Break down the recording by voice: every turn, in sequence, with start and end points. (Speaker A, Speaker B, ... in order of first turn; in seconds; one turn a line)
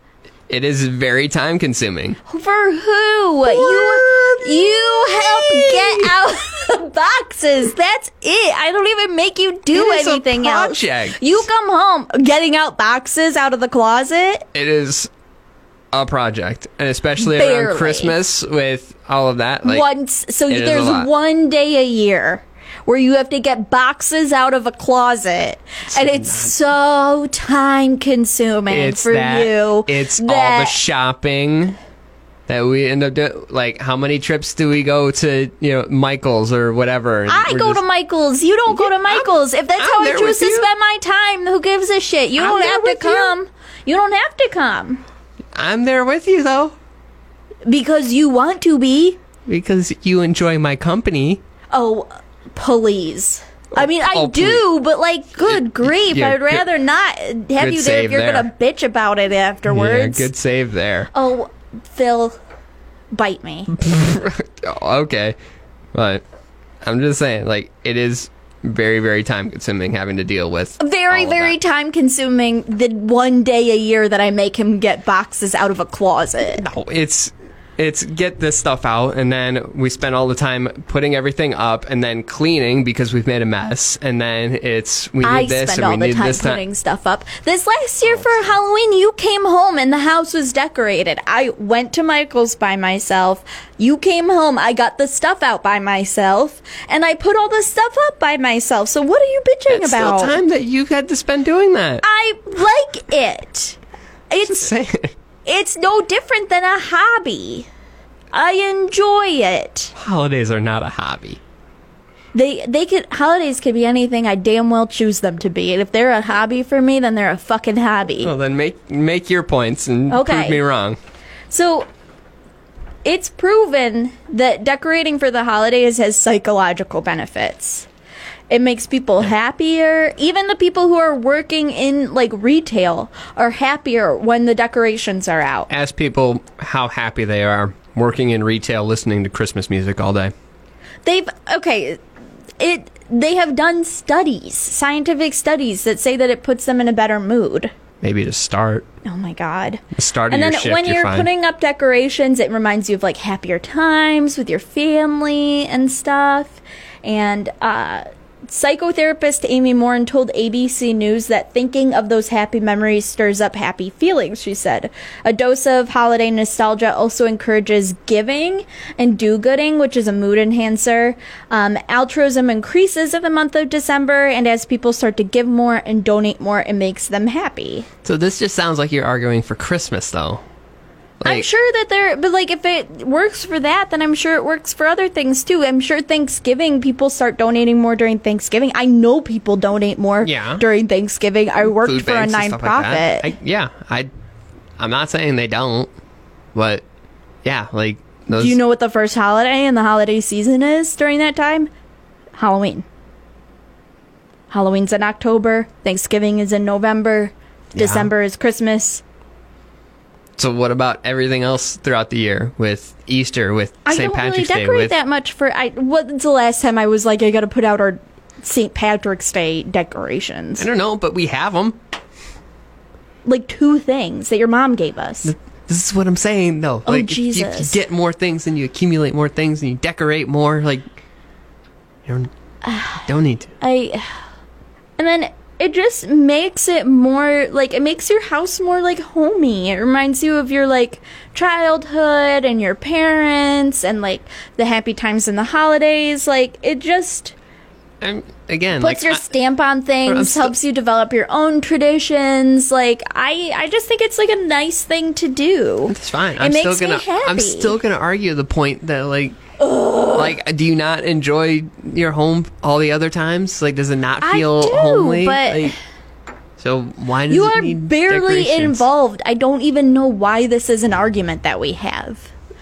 Speaker A: 0.5-2.2
Speaker B: 2.3-14.4
Speaker A: 3.4-6.1
Speaker A: 9.7-11.4
Speaker A: 14.5-15.1
Speaker A: 15.9-19.9
Speaker B: 17.2-18.1
Speaker B: 19.6-30.8
Speaker A: 20.5-21.1
Speaker A: 25.9-26.5
Speaker A: 28.7-31.8
Speaker A: 32.5-37.8
Speaker B: 37.3-45.0
Speaker A: 38.7-40.7
Speaker A: 42.4-43.4
Speaker A: 45.5-46.7
Speaker B: 47.6-49.2
Speaker A: 49.5-51.4
Speaker B: 51.7-60.3
Speaker A: 53.8-54.6
Speaker A: 55.4-56.6
Speaker A: 57.6-58.5
Speaker A: 59.7-61.1
Speaker B: 61.1-62.4
Speaker B: 63.1-63.7
Speaker A: 63.8-65.3
Speaker A: 65.9-66.2
Speaker A: 66.8-71.6
Speaker B: 70.8-76.6
Speaker A: 76.4-86.6
Speaker B: 85.2-100.4
Speaker A: 88.0-88.4
Speaker A: 99.7-102.0
Speaker B: 102.0-103.8
Speaker B: 104.3-104.7
Speaker A: 104.5-105.1
Speaker B: 105.5-107.7
Speaker B: 108.3-109.9
Speaker A: 110.0-111.4
Speaker B: 112.3-118.3
Speaker A: 118.2-121.0
Speaker B: 120.1-120.6
Speaker B: 121.5-121.8
Speaker B: 123.0-127.9
Speaker B: 128.5-135.7
Speaker A: 135.7-140.3
Speaker B: 141.0-142.0
Speaker B: 142.6-147.7
Speaker A: 148.0-148.8
Speaker B: 149.0-177.9
Speaker A: 149.9-151.3
Speaker A: 178.0-180.4
Speaker A: 181.2-181.4
Speaker B: 181.2-193.3
Speaker A: 190.2-190.6
Speaker A: 191.7-194.1
Speaker A: 194.8-195.9
Speaker A: 196.5-196.8
Speaker A: 197.4-198.6
Speaker B: 198.3-201.7
Speaker B: 202.3-202.8
Speaker B: 204.5-209.0
Speaker A: 207.8-208.1
Speaker A: 210.4-214.9
Speaker B: 213.8-220.7
Speaker A: 220.6-221.8
Speaker B: 223.2-225.3
Speaker A: 225.2-230.8
Speaker B: 226.8-227.8
Speaker B: 232.6-233.0
Speaker A: 233.0-233.5
Speaker B: 233.6-234.1
Speaker B: 235.0-247.3
Speaker A: 248.0-249.3
Speaker B: 248.8-257.8
Speaker A: 250.0-250.5
Speaker A: 255.9-259.4
Speaker B: 259.6-260.3
Speaker A: 260.1-265.7
Speaker B: 264.2-265.7
Speaker A: 266.6-268.9
Speaker B: 267.3-272.3